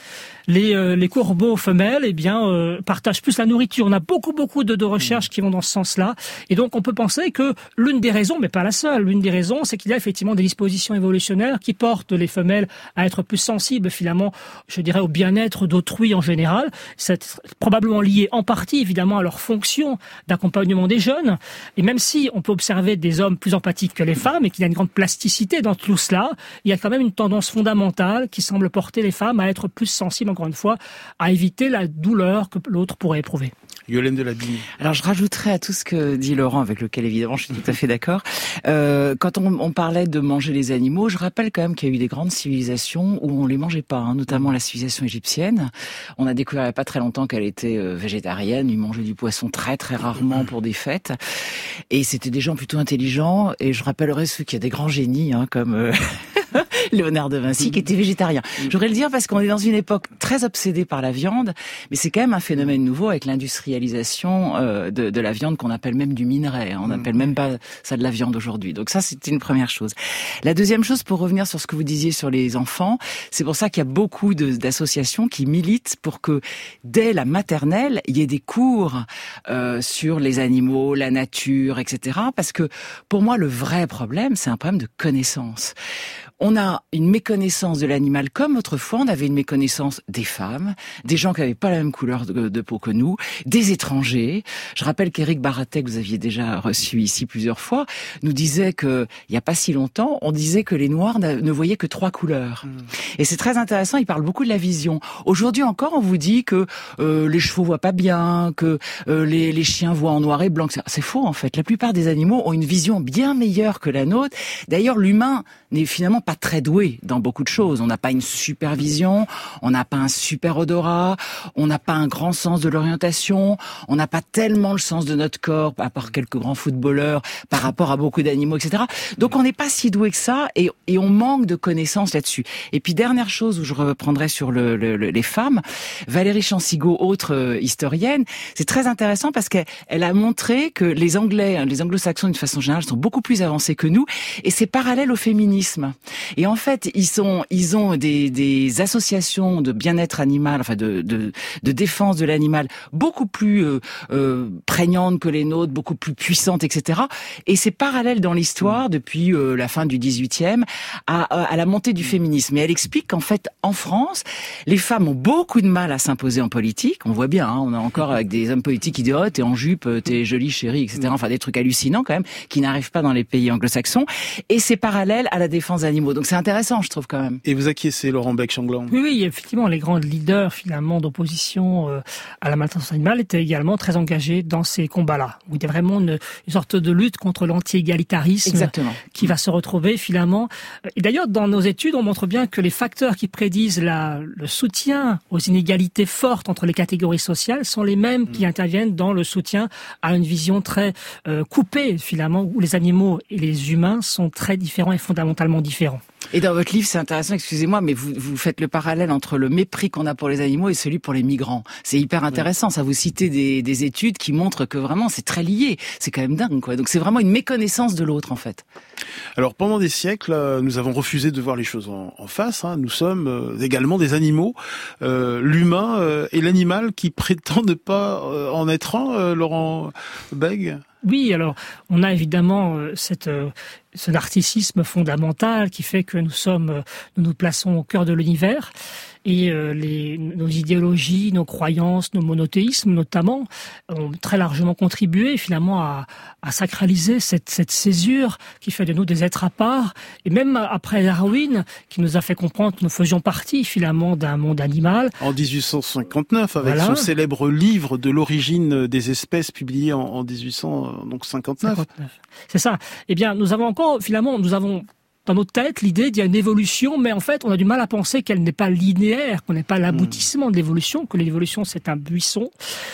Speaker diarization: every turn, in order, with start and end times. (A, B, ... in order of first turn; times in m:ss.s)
0:00.5-0:33.5 A
0:33.9-0:34.6 B
0:34.8-1:25.7 C
1:26.4-2:57.4 C
2:57.4-2:58.9 B
2:58.9-3:26.0 A
3:08.4-3:09.0 C
3:26.3-3:38.6 C
3:39.4-3:50.8 B
3:51.0-3:58.7 A
3:59.2-4:15.1 A
4:15.2-4:21.9 B
4:16.6-4:17.1 A
4:21.6-4:32.5 A
4:29.9-4:30.2 B